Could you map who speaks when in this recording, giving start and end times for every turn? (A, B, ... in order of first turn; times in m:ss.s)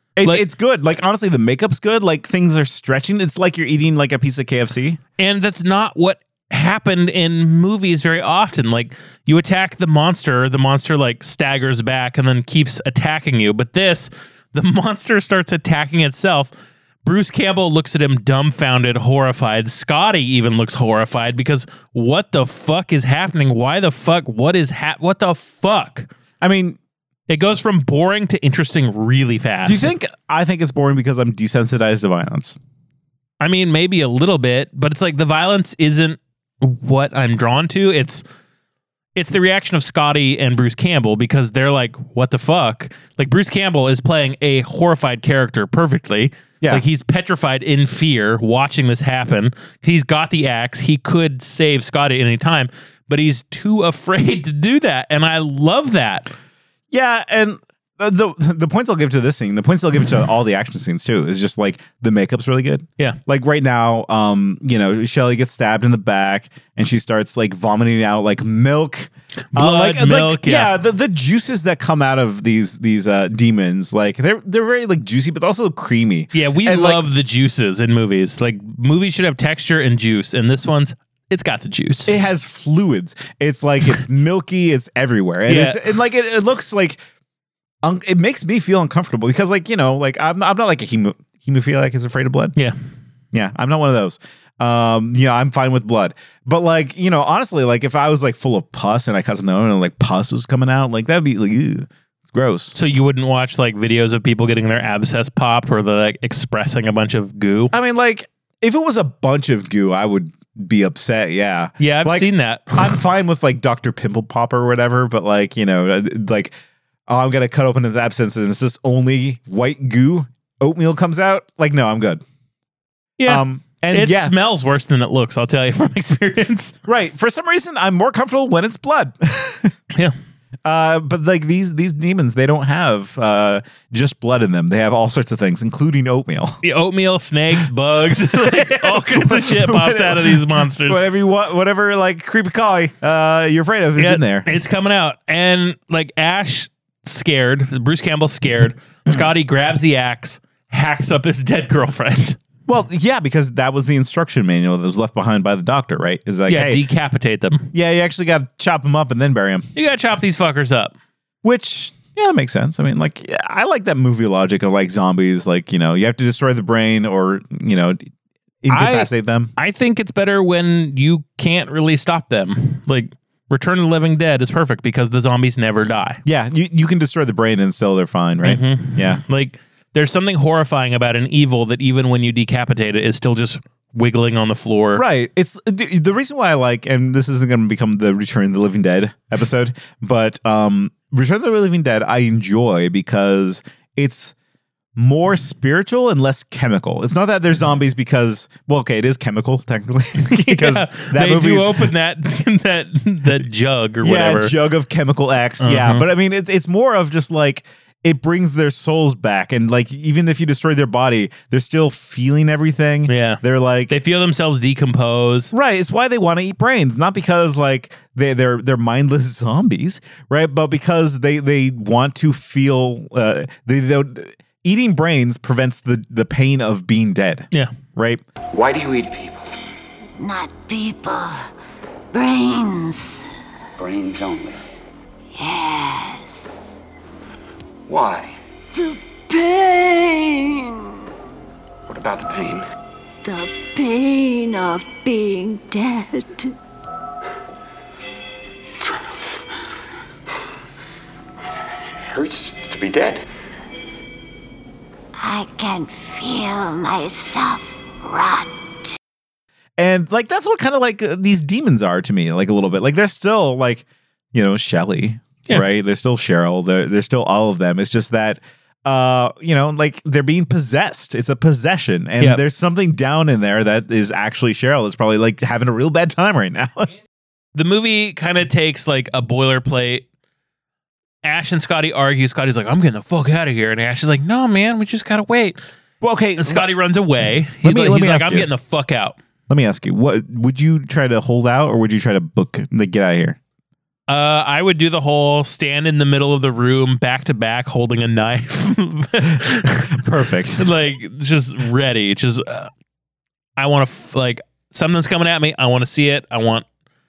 0:00.2-0:05.0 A
0:05.2-0:16.5 B
0:17.0-0:26.1 B
0:26.4-0:26.8 A
0:27.3-0:29.9 B
0:29.6-0:32.6 A
0:33.4-0:38.2 B
0:39.2-0:56.3 B
0:56.9-1:17.0 A
1:09.6-1:10.7 B
1:16.3-1:22.1 B
1:22.1-1:27.0 A
1:25.5-1:25.8 B
1:27.8-1:32.5 A
1:33.3-1:42.7 A
1:42.7-1:47.7 B
1:47.7-1:56.5 A
1:51.8-1:53.0 B
1:57.1-2:02.2 A
2:03.2-2:06.7 B
2:03.3-2:04.4 A
2:06.8-2:09.7 A
2:10.6-2:16.6 A
2:16.6-2:21.0 B
2:18.3-2:24.5 A
2:24.0-2:32.4 B
2:32.7-2:36.8 A
2:36.5-2:37.7 B
2:37.7-2:39.7 A
2:39.8-2:40.9 B
2:41.4-2:48.0 A
2:48.6-2:49.5 A
2:48.7-2:56.2 B
2:56.2-2:59.2 A
2:58.4-3:05.0 B
3:05.0-3:14.3 A
3:15.0-3:21.9 A
3:20.2-3:24.6 B
3:24.0-3:34.0 A
3:25.6-3:26.1 B
3:33.1-3:35.5 B
3:35.5-3:48.2 A
3:48.5-3:49.5 C
3:50.2-3:51.4 D
3:52.1-3:53.2 D
3:53.8-3:54.6 C
3:55.4-3:56.6 D
3:57.9-3:58.4 C
3:58.7-4:00.9 D
4:01.9-4:02.6 C
4:03.2-4:06.5 D
4:08.8-4:09.4 C
4:12.0-4:13.2 C
4:15.2-4:18.9 D
4:19.8-4:36.9 A
4:37.6-4:40.0 B
4:41.2-4:45.6 B
4:46.0-4:46.7 A
4:46.4-4:49.2 B
4:47.6-4:48.5 A
4:49.5-4:53.4 A
4:54.1-5:00.0 B
4:59.9-5:00.7 A
5:00.6-5:02.7 B
5:03.6-5:06.7 B